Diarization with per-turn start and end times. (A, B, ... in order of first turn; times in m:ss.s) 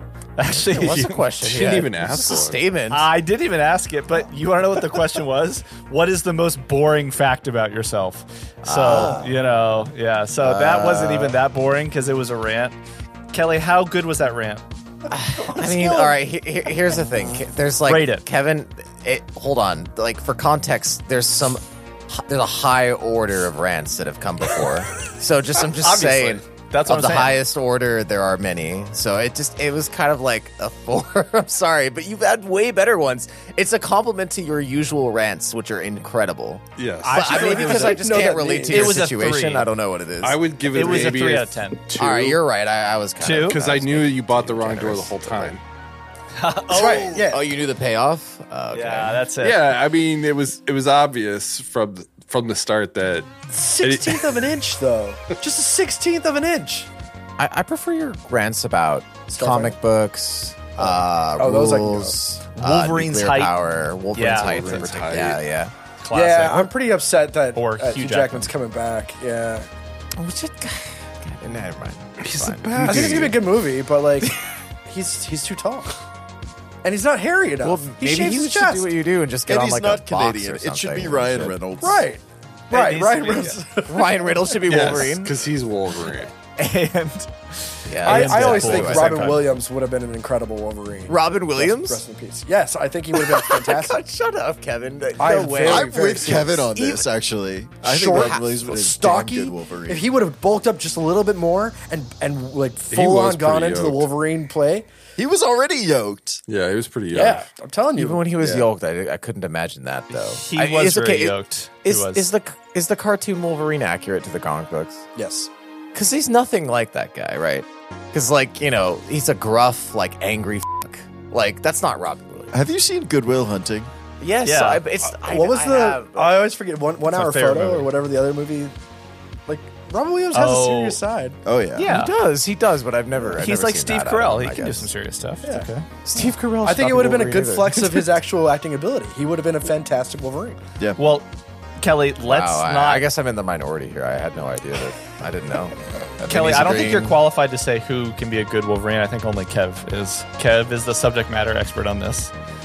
0:00.4-0:01.2 A
0:00.5-0:03.1 B
0:01.4-0:02.6 C
0:02.9-0:12.8 A
0:08.6-0:09.3 B
0:10.4-0:11.4 B
0:13.3-0:14.6 A
0:15.1-0:40.4 B
0:15.4-0:16.2 D
0:17.8-0:18.3 A
0:25.7-0:27.4 A
0:36.8-0:37.4 C
0:37.0-0:39.7 A
0:37.3-0:39.1 D
0:40.2-0:42.4 C
0:40.7-0:41.9 A
0:42.0-0:45.6 B
0:43.2-0:43.6 A
0:43.5-0:45.6 C
0:46.4-0:47.3 A
0:46.7-0:47.4 D
0:47.3-0:49.2 B
0:48.7-0:49.7 A
0:49.4-0:54.5 C
0:53.6-0:56.9 D
0:57.4-1:05.7 B
0:59.3-0:59.8 D
1:01.4-1:02.2 D
1:02.6-1:03.6 A
1:04.1-1:04.8 A
1:04.2-1:05.4 C
1:06.0-1:06.7 A
1:06.1-1:09.7 D
1:07.5-1:08.5 A
1:10.2-1:13.4 B
1:12.2-1:13.3 C
1:12.8-1:16.0 D
1:16.8-1:18.9 D
1:17.6-1:21.6 B
1:19.5-1:22.1 E
1:21.8-1:24.6 D
1:22.7-1:23.6 A
1:23.9-1:25.4 B
1:24.7-1:26.3 C
1:26.6-1:29.4 A
1:27.9-1:29.5 B
1:28.0-1:34.0 D
1:31.1-1:32.0 B
1:33.1-1:37.0 B
1:35.2-1:36.6 D
1:35.6-1:40.1 E
1:37.8-1:44.9 D
1:38.0-1:38.6 B
1:42.9-1:44.1 C
1:45.2-1:46.4 E
1:46.5-1:47.4 C
1:47.1-1:48.4 D
1:48.0-1:55.0 B
1:48.4-1:48.7 E
1:50.4-1:52.3 A
1:55.2-1:55.5 D
1:55.9-2:02.6 B
2:02.5-2:03.9 E
2:04.2-2:06.4 B
2:04.4-2:04.8 A
2:05.1-2:08.8 D
2:07.1-2:07.9 A
2:09.5-2:11.4 D
2:10.3-2:11.0 A
2:11.4-2:11.9 E
2:11.8-2:14.9 B
2:11.8-2:12.1 A
2:13.4-2:15.9 A
2:16.0-2:18.2 B
2:16.6-2:20.6 D
2:21.0-2:21.3 A
2:21.8-2:23.1 A
2:22.3-2:27.2 B
2:26.3-2:32.3 A